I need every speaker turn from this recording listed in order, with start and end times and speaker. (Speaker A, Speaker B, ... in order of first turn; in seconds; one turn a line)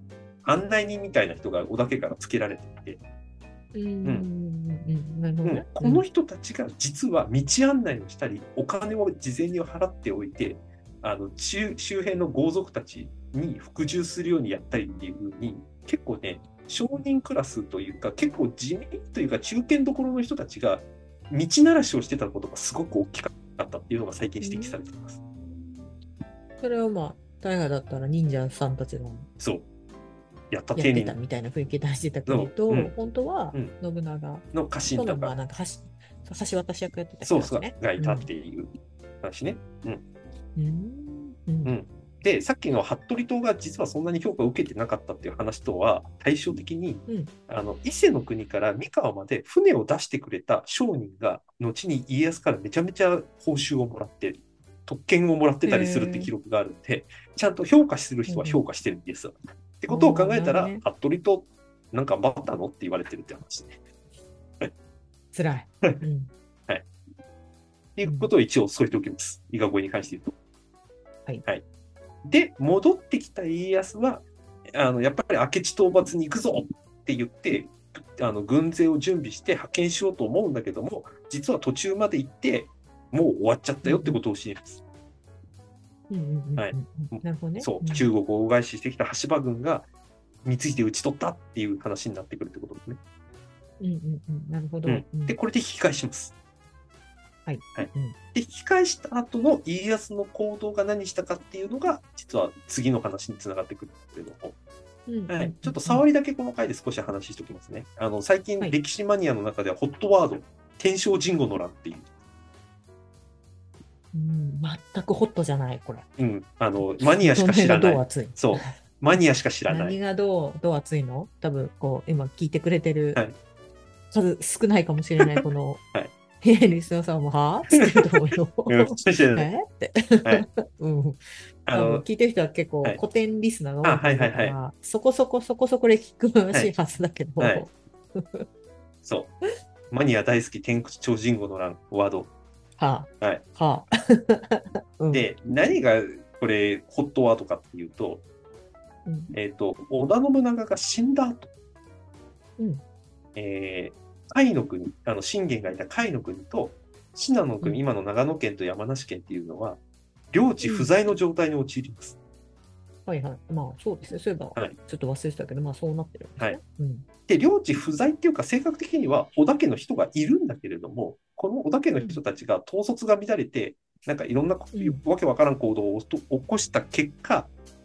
Speaker A: 0.4-3.0
Speaker B: 3.7-6.0
Speaker A: 5.4-25.2
Speaker B: 24.4-24.8
Speaker B: 26.6-29.3
Speaker A: 29.4-29.6
Speaker A: 30.5-31.2
Speaker B: 30.7-38.3
Speaker A: 32.2-32.9
Speaker A: 34.5-35.4
Speaker A: 37.2-38.7
Speaker A: 39.2-40.0
Speaker B: 40.5-41.7
Speaker A: 41.6-63.8
Speaker B: 47.1-47.3
Speaker B: 55.6-56.3
Speaker B: 58.3-58.6
Speaker B: 59.9-60.8
Speaker B: 65.3-66.3
Speaker A: 68.0-70.3
Speaker B: 68.0-68.3
Speaker A: 72.2-84.8
Speaker B: 83.8-84.2
Speaker B: 86.1-88.1
Speaker A: 86.6-89.9
Speaker A: 90.4-93.0
Speaker B: 93.8-95.4
Speaker A: 94.8-96.3
Speaker B: 97.5-98.2
Speaker A: 97.7-104.5
Speaker B: 105.1-106.0
Speaker A: 105.3-112.1
Speaker B: 114.1-116.1
Speaker A: 116.2-120.0
Speaker B: 116.8-118.8
Speaker B: 119.7-123.2
Speaker B: 124.1-125.8
Speaker B: 126.4-131.2
Speaker A: 128.7-129.5
Speaker A: 131.7-132.1
Speaker B: 131.7-138.5
Speaker A: 133.8-134.6
Speaker A: 137.4-137.7
Speaker A: 139.0-139.3
Speaker A: 139.9-142.3
Speaker B: 142.8-145.3
Speaker A: 145.1-148.2
Speaker B: 149.1-149.3
Speaker A: 149.3-151.5
Speaker B: 152.6-152.8
Speaker A: 153.3-162.2
Speaker B: 160.6-160.9
Speaker B: 163.1-167.1
Speaker A: 167.3-177.5
Speaker B: 174.7-175.0